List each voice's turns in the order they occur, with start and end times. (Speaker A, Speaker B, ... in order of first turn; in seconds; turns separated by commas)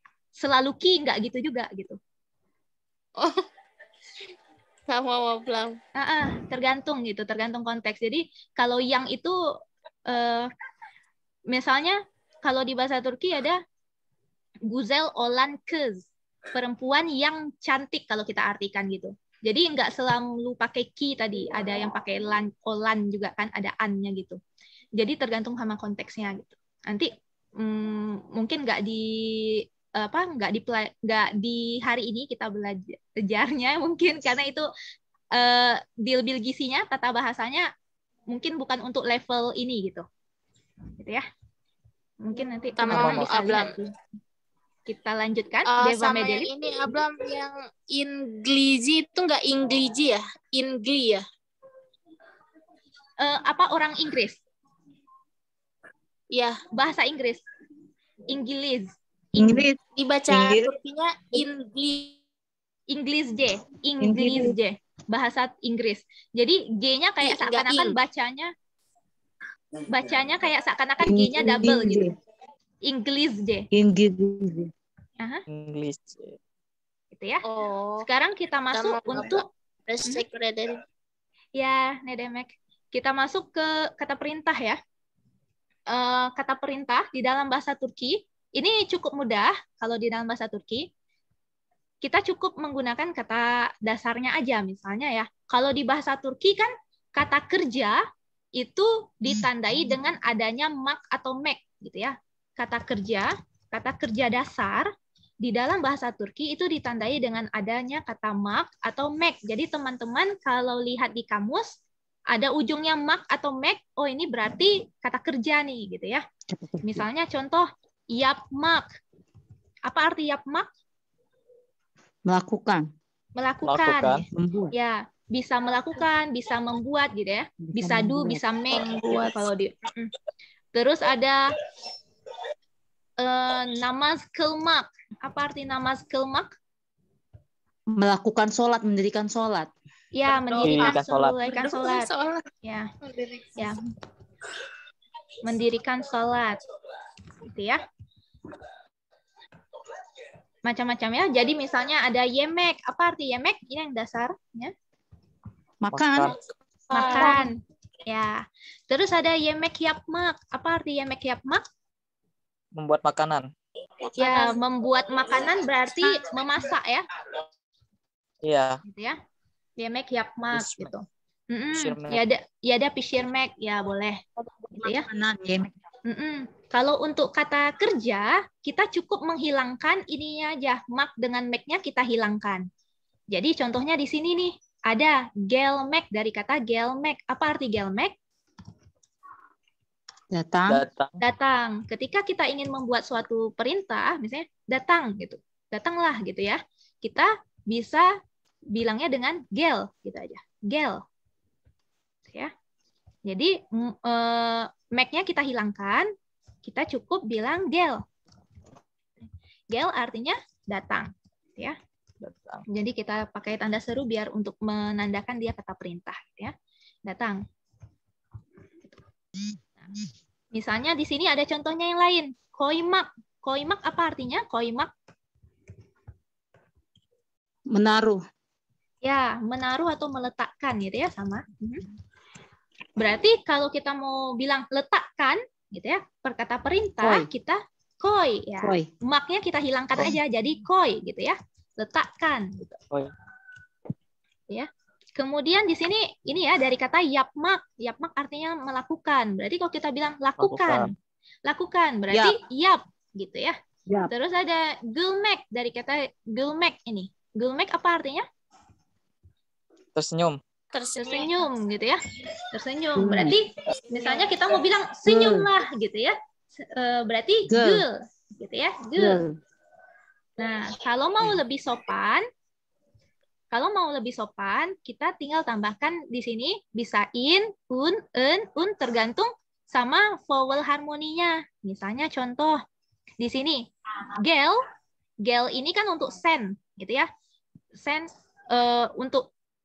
Speaker A: 0.4-2.0, Speaker B: 3.2-3.4, Speaker B: 4.9-5.8, Speaker A: 6.0-9.4, Speaker A: 10.1-10.5, Speaker A: 11.5-13.6, Speaker A: 14.7-24.4, Speaker A: 25.0-34.7, Speaker A: 35.3-37.7, Speaker A: 38.3-40.1, Speaker A: 41.0-41.2, Speaker A: 42.2-43.9, Speaker B: 42.7-43.7, Speaker C: 42.9-43.5, Speaker A: 44.9-46.5, Speaker B: 45.7-51.2, Speaker A: 53.2-54.4, Speaker B: 56.3-56.6, Speaker A: 56.7-57.4, Speaker A: 58.3-59.7, Speaker D: 59.4-60.7, Speaker B: 60.0-62.2, Speaker A: 62.9-68.5, Speaker D: 64.0-64.5, Speaker B: 67.2-68.0, Speaker A: 69.9-72.1, Speaker D: 71.0-72.1, Speaker A: 72.8-73.7, Speaker D: 73.7-74.7, Speaker C: 75.5-76.4, Speaker A: 77.1-77.5, Speaker B: 77.5-78.1, Speaker A: 78.0-79.5, Speaker B: 78.7-80.8, Speaker A: 81.6-84.8, Speaker A: 85.9-90.9, Speaker A: 92.0-98.0, Speaker A: 98.6-104.9, Speaker A: 105.4-111.8, Speaker A: 112.3-116.2, Speaker D: 116.5-117.0, Speaker A: 116.8-118.9, Speaker A: 119.9-120.7, Speaker D: 122.2-122.9, Speaker A: 123.4-130.1, Speaker C: 123.6-124.2, Speaker D: 124.3-124.7, Speaker D: 127.7-128.4, Speaker B: 128.7-129.5, Speaker A: 130.7-131.5, Speaker A: 133.2-136.5, Speaker D: 137.9-139.7, Speaker A: 140.1-142.1, Speaker B: 140.3-142.5, Speaker C: 140.6-141.4, Speaker A: 142.6-142.9, Speaker B: 143.1-143.5, Speaker A: 145.4-146.6, Speaker A: 147.4-147.8, Speaker A: 150.7-154.7, Speaker D: 155.8-156.4, Speaker C: 155.9-156.4, Speaker A: 156.9-161.6, Speaker D: 157.0-157.5, Speaker C: 162.7-163.5, Speaker B: 164.1-164.6, Speaker A: 164.2-167.0, Speaker C: 168.4-168.8, Speaker A: 168.8-169.2, Speaker A: 169.8-174.2, Speaker C: 170.6-170.9, Speaker C: 171.7-172.2, Speaker D: 174.6-175.7, Speaker A: 174.8-175.1, Speaker A: 176.1-182.7, Speaker A: 183.3-188.1, Speaker D: 190.3-190.8, Speaker C: 190.7-191.1, Speaker A: 191.2-198.1, Speaker A: 198.7-201.0, Speaker A: 203.2-206.1, Speaker A: 206.6-208.0, Speaker A: 209.7-211.8, Speaker C: 212.2-212.7, Speaker A: 212.7-216.5, Speaker A: 217.1-217.4, Speaker A: 220.5-224.9, Speaker D: 227.7-228.2, Speaker A: 229.0-231.8, Speaker A: 233.0-242.8, Speaker D: 237.0-237.3, Speaker D: 238.6-238.9, Speaker A: 244.5-250.9, Speaker C: 250.4-250.9, Speaker A: 251.5-253.6, Speaker D: 252.1-252.4, Speaker A: 254.1-258.2, Speaker C: 259.9-260.4, Speaker B: 260.7-261.3, Speaker A: 261.0-262.0, Speaker A: 262.5-269.2, Speaker D: 263.0-263.4, Speaker D: 265.1-265.5, Speaker D: 267.5-267.9, Speaker D: 269.0-269.4, Speaker A: 270.4-272.2, Speaker A: 273.5-282.6, Speaker A: 283.2-283.6, Speaker A: 284.1-284.6, Speaker A: 285.2-287.1, Speaker A: 287.8-289.3